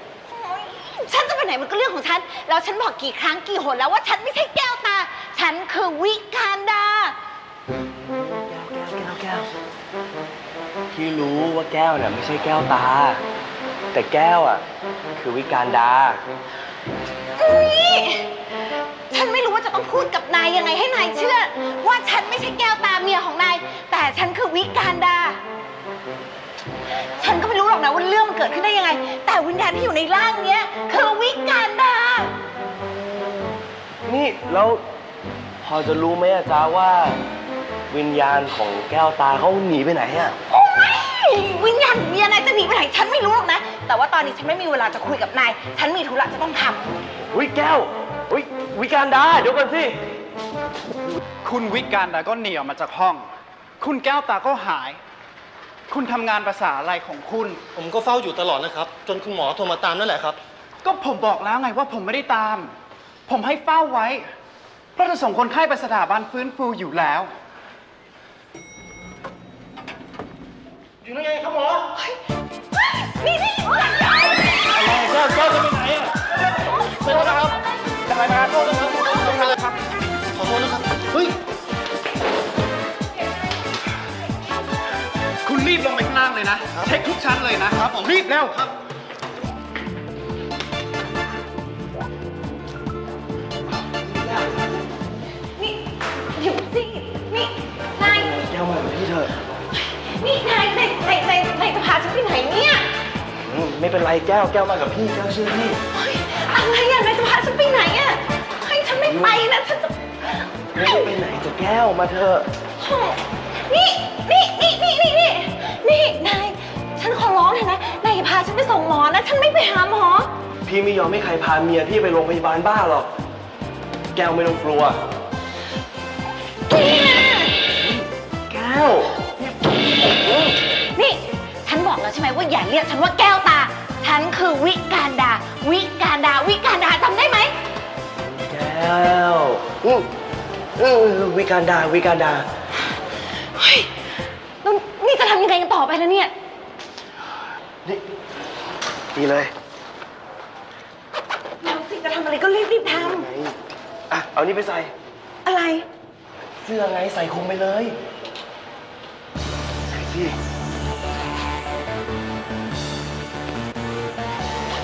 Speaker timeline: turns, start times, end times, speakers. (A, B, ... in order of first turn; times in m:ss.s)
0:00.2-0:07.2 A
0:08.1-0:09.5 B
0:10.9-0:13.2 B
0:13.9-0:14.6 B
0:15.2-0:16.2 B
0:17.4-0:18.4 A
0:19.1-0:25.4 A
0:27.2-0:32.3 A
0:34.0-0:34.8 B
0:35.6-0:37.2 B
0:37.9-0:40.4 B
0:40.4-0:46.9 A
0:47.3-0:50.0 B
0:51.4-0:53.3 C
0:53.8-0:55.0 C
0:55.9-0:57.6 C
0:57.7-1:00.4 D
1:00.8-1:02.7 C
1:03.3-1:04.2 C
1:05.0-1:07.3 C
1:11.1-1:11.7 D
1:13.0-1:15.3 A
1:15.3-1:16.1 D
1:17.0-1:17.5 A
1:18.1-1:19.6 D
1:20.3-1:21.4 D
1:25.4-1:28.7 C
1:33.9-1:34.6 B
1:36.3-1:38.4 A
1:38.1-1:39.4 B
1:39.7-1:42.9 A
1:43.4-1:45.8 B
1:45.9-1:51.2 A
1:49.0-1:49.4 B
1:50.7-1:52.5 B
1:52.8-2:00.3 A
2:00.6-2:03.1 B
2:04.1-2:05.0 B
2:06.7-2:07.6 A
2:07.8-2:10.6 B
2:11.0-2:17.6 A
2:18.2-2:20.1 B
2:20.8-2:22.5 B
2:23.6-2:23.9 A
2:24.6-2:26.3 A
2:29.1-2:29.5 B
2:31.6-2:33.3 A
2:32.9-2:33.6 B
2:34.1-2:34.9 B
2:35.4-2:35.9 A
2:36.6-2:38.0 B
2:39.9-2:40.4 B